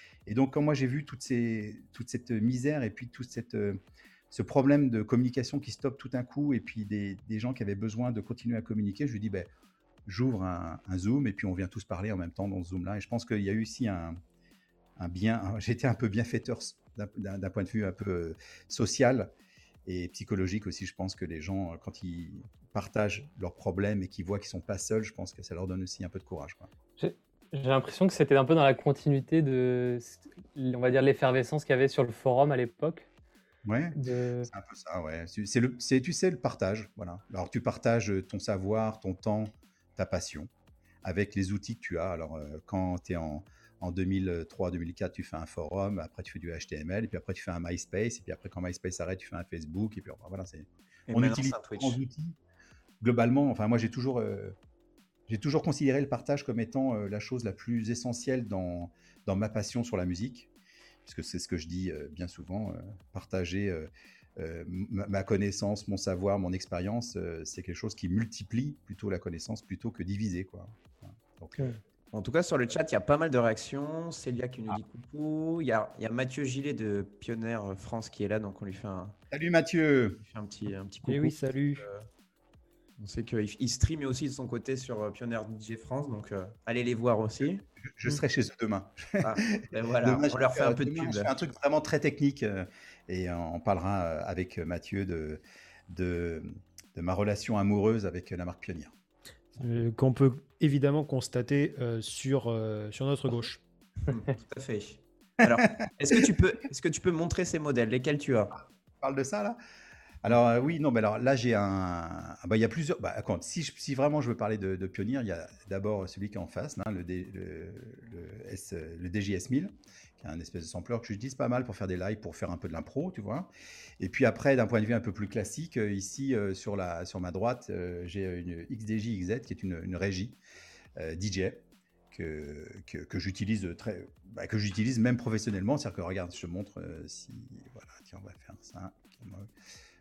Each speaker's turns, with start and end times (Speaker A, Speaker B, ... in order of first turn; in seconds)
Speaker A: 0.2-3.8, 4.3-9.5, 10.1-14.2, 15.0-19.3, 19.9-26.7, 33.6-34.0, 34.5-40.5, 41.0-52.4, 53.0-54.5, 55.3-60.5, 61.0-71.8, 79.3-80.2, 87.8-98.9, 105.4-106.2, 109.0-109.6, 110.2-130.4, 130.9-139.5
Speaker B: 27.0-33.1, 33.9-34.5
Speaker C: 51.1-52.0, 72.1-79.2, 80.3-82.1, 83.0-87.6, 89.2-91.3, 104.1-108.5
Speaker D: 81.0-81.8, 99.6-103.6